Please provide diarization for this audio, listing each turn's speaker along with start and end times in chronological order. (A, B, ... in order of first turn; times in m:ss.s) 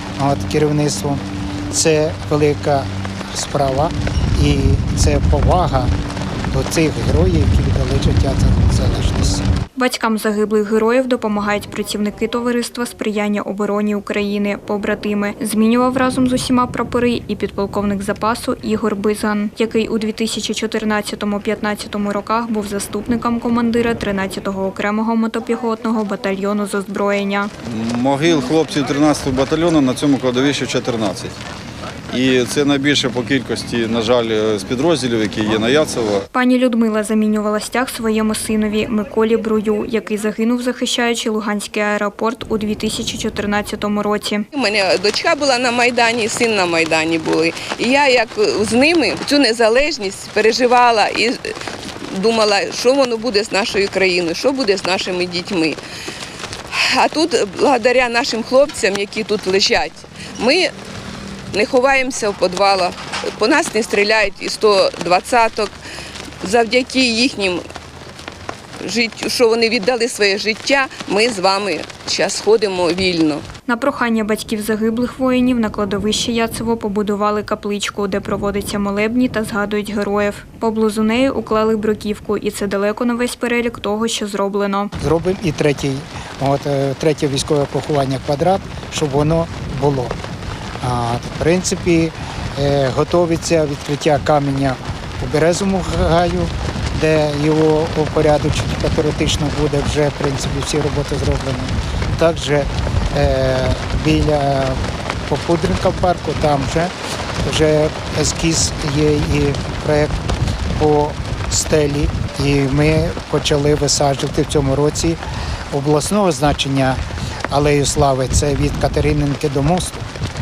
0:00.2-0:05.9 A
0:06.5-0:09.5 A
0:09.8-0:27.5 B
0:27.6-0:31.4 C
0:32.1-0:36.3 C
0:36.3-0:44.5 B
0:44.5-0:51.4 D
0:52.1-0:55.8 D
0:56.7-1:00.7 D
1:01.5-1:05.8 D
1:06.4-1:07.6 D
1:08.8-1:13.4 D
1:13.7-1:24.9 B
1:25.0-1:30.2 A
1:30.8-1:46.9 A
1:47.4-1:50.1 A
1:50.8-1:55.2 A
1:55.7-1:57.0 A
1:57.5-2:00.0 A